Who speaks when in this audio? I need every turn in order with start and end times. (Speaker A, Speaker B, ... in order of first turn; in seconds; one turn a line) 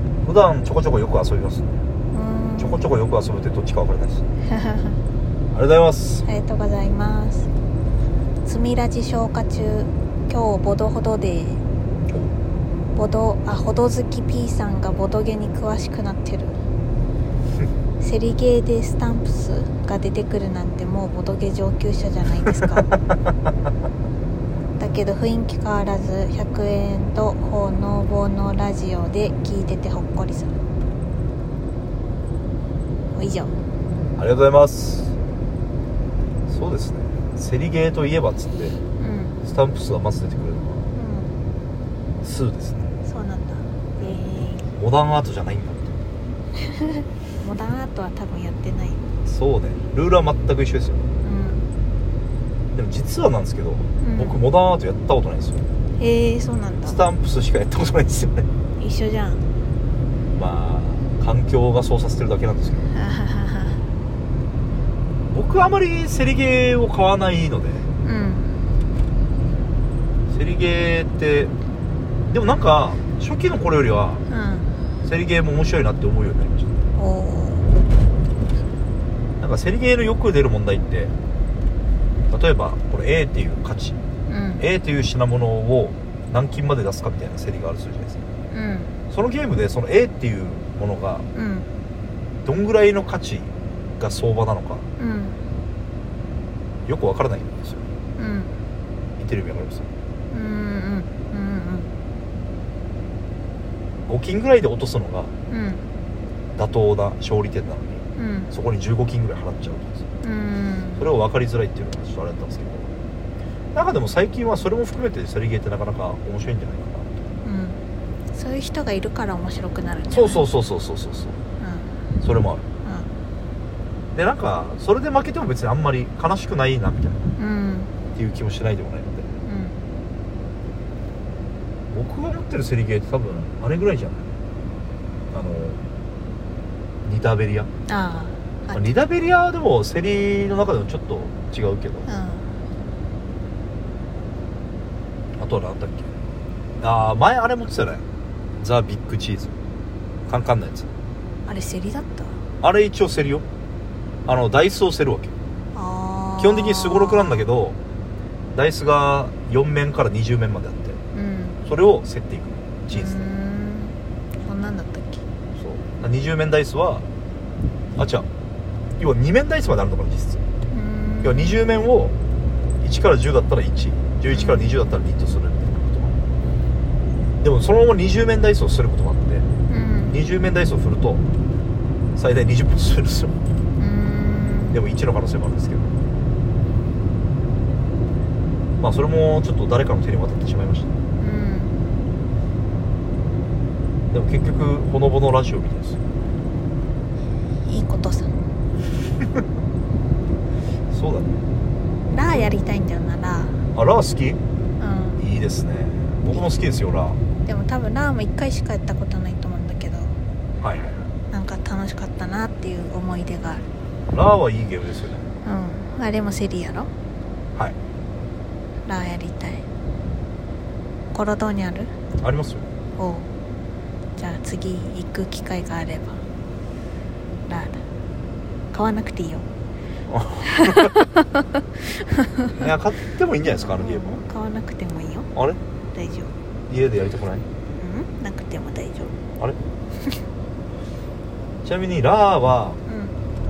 Speaker A: 0.2-1.8
Speaker B: 2.1-2.8
Speaker A: 2.6-4.2
Speaker B: 4.5-5.0
Speaker A: 5.5-6.2
Speaker B: 6.2-7.5
Speaker B: 8.4-11.6
Speaker B: 12.9-16.6
Speaker B: 18.0-22.9
Speaker B: 24.8-30.5
Speaker B: 33.1-33.6
Speaker A: 34.2-35.1
Speaker A: 36.5-38.8
Speaker B: 39.0-39.4
Speaker A: 39.4-40.9
Speaker B: 40.9-41.3
Speaker A: 42.2-43.0
Speaker B: 43.0-44.7
Speaker A: 44.0-46.0
Speaker B: 47.0-49.1
Speaker A: 49.2-51.0
Speaker B: 51.2-51.7
Speaker A: 52.7-55.7
Speaker B: 54.0-54.4
Speaker B: 56.0-57.0
Speaker A: 56.9-58.5
Speaker B: 58.8-59.5
Speaker A: 60.3-62.9
Speaker B: 62.9-63.8
Speaker A: 65.3-67.9
Speaker B: 68.0-68.6
Speaker A: 70.3-71.5
Speaker A: 72.3-74.2
Speaker B: 74.3-74.7
Speaker A: 75.0-76.7
Speaker B: 77.0-77.7
Speaker A: 79.4-81.1
Speaker A: 82.3-84.0
Speaker B: 84.3-84.7
Speaker A: 84.6-88.2
Speaker B: 88.5-89.0
Speaker A: 89.1-91.3
Speaker B: 91.3-91.7
Speaker A: 92.5-94.9
Speaker B: 95.0-95.4
Speaker A: 96.9-97.8
Speaker B: 98.2-98.6
Speaker A: 99.2-99.9
Speaker B: 100.3-101.9
Speaker A: 104.1-105.3
Speaker B: 105.5-105.8
Speaker A: 106.5-110.0
Speaker B: 108.2-108.5
Speaker B: 110.2-111.1
Speaker A: 111.0-112.9
Speaker A: 113.7-117.1
Speaker B: 117.4-117.8
Speaker B: 118.3-120.5
Speaker A: 120.1-121.4
Speaker B: 121.6-122.0
Speaker A: 122.2-122.6
Speaker B: 122.8-123.1
Speaker A: 124.1-127.2
Speaker B: 127.4-127.9
Speaker A: 128.1-129.3
Speaker B: 129.4-129.8
Speaker A: 131.9-134.3
Speaker A: 135.3-135.8
Speaker A: 137.0-137.7
Speaker B: 137.9-138.9
Speaker A: 138.7-142.1
Speaker B: 142.1-142.6
Speaker A: 145.4-146.1
Speaker A: 146.8-148.0
Speaker A: 148.6-149.5
Speaker A: 150.3-150.9
Speaker B: 151.5-152.4
Speaker A: 152.6-153.4
Speaker A: 154.3-155.3
Speaker B: 155.7-157.5
Speaker A: 156.4-157.8
Speaker A: 158.5-161.0
Speaker B: 161.1-161.6
Speaker A: 161.7-163.3
Speaker B: 162.9-165.2
Speaker A: 165.6-167.1
Speaker A: 168.0-168.3
Speaker A: 169.0-170.4
Speaker B: 170.7-171.7
Speaker A: 171.2-172.2
Speaker A: 172.8-176.2
Speaker B: 174.3-174.8
Speaker A: 177.4-179.5
Speaker B: 179.7-180.2
Speaker A: 180.1-181.2
Speaker A: 182.2-183.4
Speaker B: 183.8-184.8
Speaker A: 184.7-185.9
Speaker A: 188.8-190.9
Speaker B: 191.2-191.8
Speaker A: 194.1-196.0
Speaker B: 197.7-198.4
Speaker A: 200.9-201.5
Speaker B: 202.1-203.6
Speaker A: 203.7-204.4
Speaker B: 204.8-205.2
Speaker A: 205.2-207.2
Speaker B: 207.4-210.2
Speaker A: 210.6-211.1
Speaker B: 211.3-213.7
Speaker A: 214.1-215.2
Speaker B: 215.4-216.9
Speaker B: 218.9-219.7
Speaker B: 221.1-221.9
Speaker A: 222.2-222.7
Speaker B: 223.0-223.3
Speaker B: 224.2-226.2
Speaker B: 227.5-227.8
Speaker B: 228.7-229.5
Speaker A: 230.1-230.9
Speaker B: 230.4-232.6
Speaker A: 232.5-234.2
Speaker B: 233.5-235.3
Speaker A: 235.3-235.6
Speaker B: 235.9-236.3
Speaker A: 236.7-237.5
Speaker B: 237.8-239.2
Speaker A: 241.6-242.8
Speaker B: 242.9-243.2